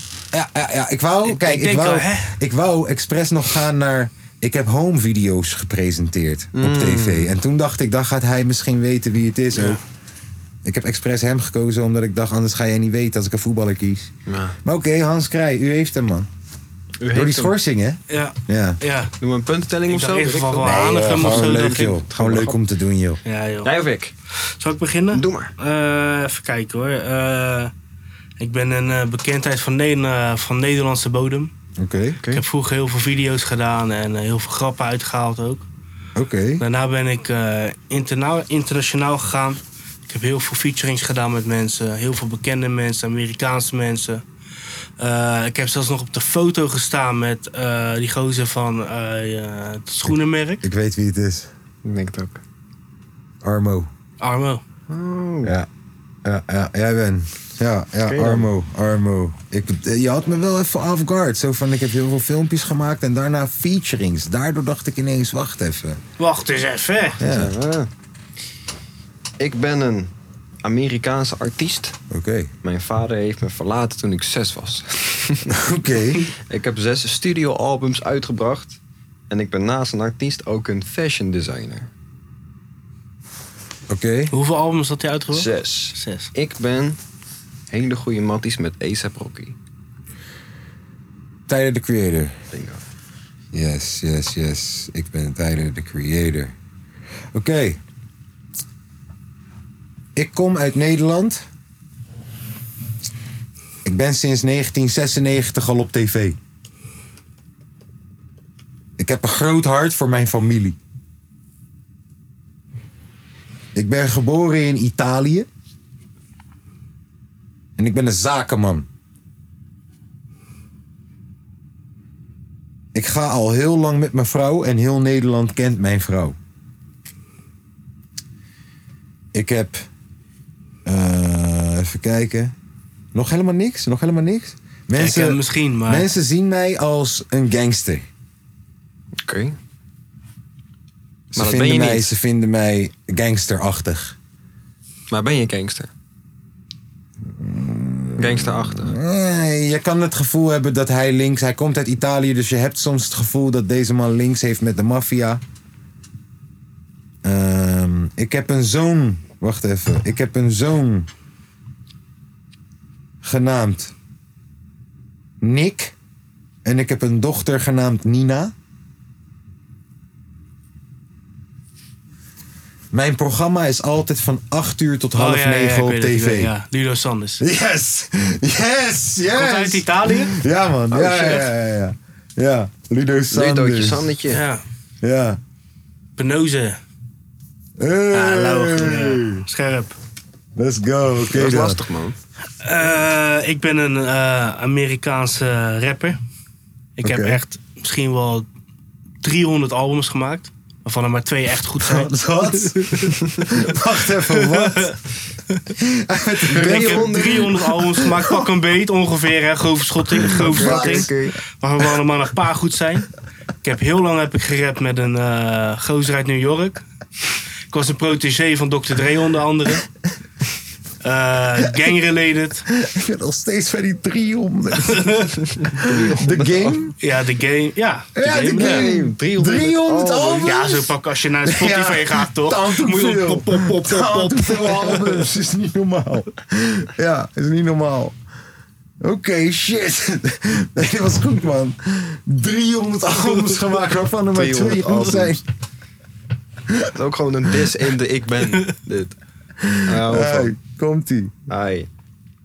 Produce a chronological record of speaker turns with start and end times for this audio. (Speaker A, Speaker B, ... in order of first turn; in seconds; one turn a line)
Speaker A: 0.3-9.8
Speaker B: 1.2-2.4
Speaker C: 6.5-7.3
Speaker B: 9.5-9.8
Speaker A: 10.6-14.1
Speaker C: 14.3-14.6
Speaker A: 14.7-16.3
Speaker C: 17.0-17.6
Speaker A: 17.1-18.8
Speaker B: 18.1-19.1
Speaker C: 19.2-22.6
Speaker B: 19.9-22.0
Speaker A: 20.6-23.2
Speaker B: 23.2-23.7
Speaker C: 23.6-24.1
Speaker B: 24.4-27.7
Speaker C: 25.1-25.5
Speaker B: 28.4-31.5
Speaker A: 31.8-32.2
Speaker B: 32.3-35.7
Speaker A: 36.2-36.6
Speaker B: 36.6-44.2
Speaker B: 45.0-50.6
Speaker A: 50.6-51.5
Speaker C: 51.9-52.4
Speaker A: 53.4-53.9
Speaker B: 54.2-54.6
Speaker C: 54.9-55.5
Speaker A: 55.4-55.7
Speaker A: 56.2-66.0
Speaker C: 58.0-58.5
Speaker B: 66.2-67.2
Speaker A: 67.2-67.5
Speaker C: 67.2-67.9
Speaker C: 69.4-70.1
Speaker C: 70.6-72.0
Speaker A: 72.1-72.5
Speaker C: 72.6-75.5
Speaker A: 75.5-76.3
Speaker C: 76.5-78.8
Speaker C: 79.3-81.9
Speaker A: 83.9-84.3
Speaker B: 84.3-86.3
Speaker C: 85.3-87.0
Speaker C: 87.7-89.6
Speaker A: 91.5-92.3
Speaker C: 92.5-92.8
Speaker A: 93.5-96.5
Speaker A: 97.3-97.8
Speaker A: 100.2-101.5
Speaker A: 103.8-106.4
Speaker A: 109.0-110.8
Speaker A: 113.7-115.5
Speaker A: 117.8-118.9
Speaker A: 122.9-126.4
Speaker A: 129.3-129.9
Speaker A: 130.8-132.5
Speaker A: 133.1-138.1
Speaker B: 135.0-136.1
Speaker C: 139.2-139.6
Speaker A: 141.3-144.2
Speaker C: 141.3-142.1
Speaker C: 145.1-145.9
Speaker A: 147.2-155.4
Speaker C: 148.2-149.0
Speaker A: 157.2-161.1
Speaker A: 163.2-163.9
Speaker A: 165.4-166.0
Speaker A: 166.6-168.5
Speaker A: 172.9-176.5
Speaker B: 175.2-177.4
Speaker A: 177.4-184.1
Speaker B: 179.3-180.4
Speaker C: 180.9-181.5
Speaker C: 183.3-184.4
Speaker B: 184.3-184.6
Speaker A: 185.0-185.4
Speaker B: 186.2-186.8
Speaker A: 187.8-189.4
Speaker B: 188.1-189.9
Speaker A: 190.6-191.8
Speaker C: 191.3-192.2
Speaker B: 192.6-196.2
Speaker B: 197.0-198.5
Speaker A: 197.0-197.4
Speaker B: 199.2-203.2
Speaker A: 201.8-205.0
Speaker B: 204.3-205.0
Speaker A: 205.7-208.5
Speaker B: 206.5-213.1
Speaker C: 206.5-207.6
Speaker A: 210.2-211.1
Speaker C: 210.3-211.4
Speaker B: 213.6-216.8
Speaker B: 217.7-219.9
Speaker B: 221.0-222.7
Speaker A: 221.6-221.9
Speaker A: 222.7-226.9
Speaker B: 224.9-225.4
Speaker C: 225.6-226.8
Speaker B: 227.0-228.9
Speaker A: 228.2-238.2
Speaker C: 228.6-230.5
Speaker B: 230.4-235.2
Speaker A: 239.0-245.4
Speaker C: 244.3-245.4
Speaker A: 246.7-246.9
Speaker C: 246.9-249.2
Speaker A: 249.6-251.3
Speaker C: 249.8-250.6
Speaker C: 251.5-251.9